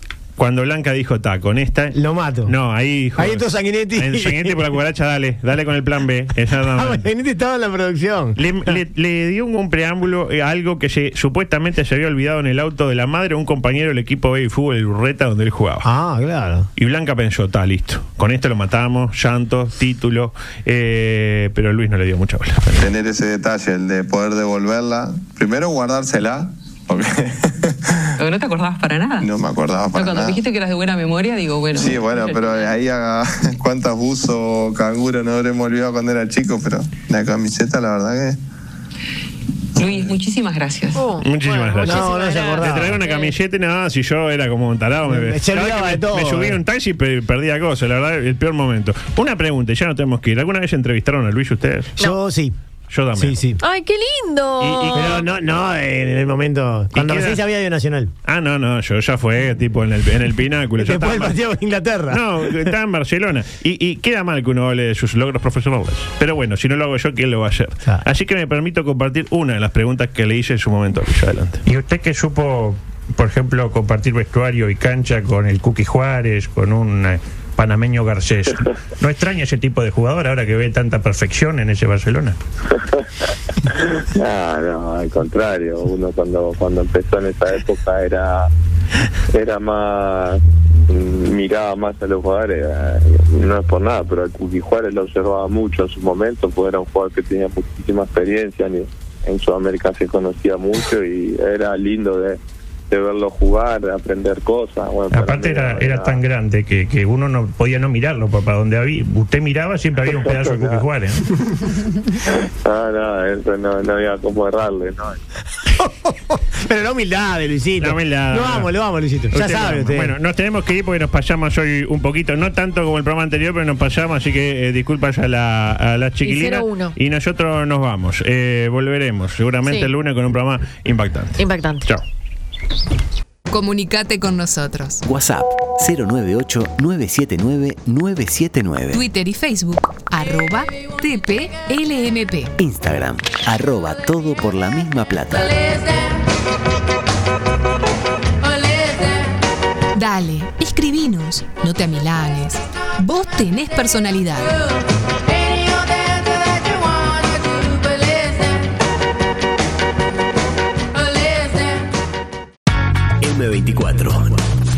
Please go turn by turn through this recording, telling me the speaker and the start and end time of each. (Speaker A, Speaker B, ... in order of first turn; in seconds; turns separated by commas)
Speaker A: 0.4-7.1, Speaker B: 1.9-2.5, Speaker B: 3.1-4.7, Speaker B: 6.7-8.8, Speaker A: 8.3-15.9, Speaker B: 15.8-16.7, Speaker A: 16.8-22.9, Speaker C: 22.7-28.1, Speaker D: 28.2-29.3, Speaker C: 29.2-30.4, Speaker D: 29.9-32.7, Speaker C: 31.7-38.4, Speaker D: 39.8-41.0, Speaker E: 40.9-43.3, Speaker A: 41.2-51.9, Speaker B: 41.8-43.0, Speaker B: 45.1-46.6, Speaker B: 52.0-52.5, Speaker A: 52.9-53.4, Speaker B: 53.1-53.6, Speaker E: 53.6-55.2, Speaker A: 54.6-55.2, Speaker B: 54.9-58.1, Speaker A: 56.9-57.4, Speaker A: 58.2-61.4, Speaker B: 60.8-62.7, Speaker A: 62.1-71.6, Speaker F: 71.7-82.4, Speaker G: 83.8-88.5, Speaker G: 89.3-102.4, Speaker G: 102.9-106.2, Speaker F: 105.1-111.2, Speaker G: 110.2-110.8, Speaker G: 112.3-115.2, Speaker B: 115.7-120.1, Speaker A: 117.8-118.7, Speaker A: 119.3-132.0, Speaker E: 126.2-126.9, Speaker E: 131.4-131.9, Speaker H: 133.5-135.0, Speaker I: 135.0-139.0, Speaker H: 138.9-142.5, Speaker I: 142.6-145.7, Speaker H: 149.9-154.6, Speaker I: 163.2-164.4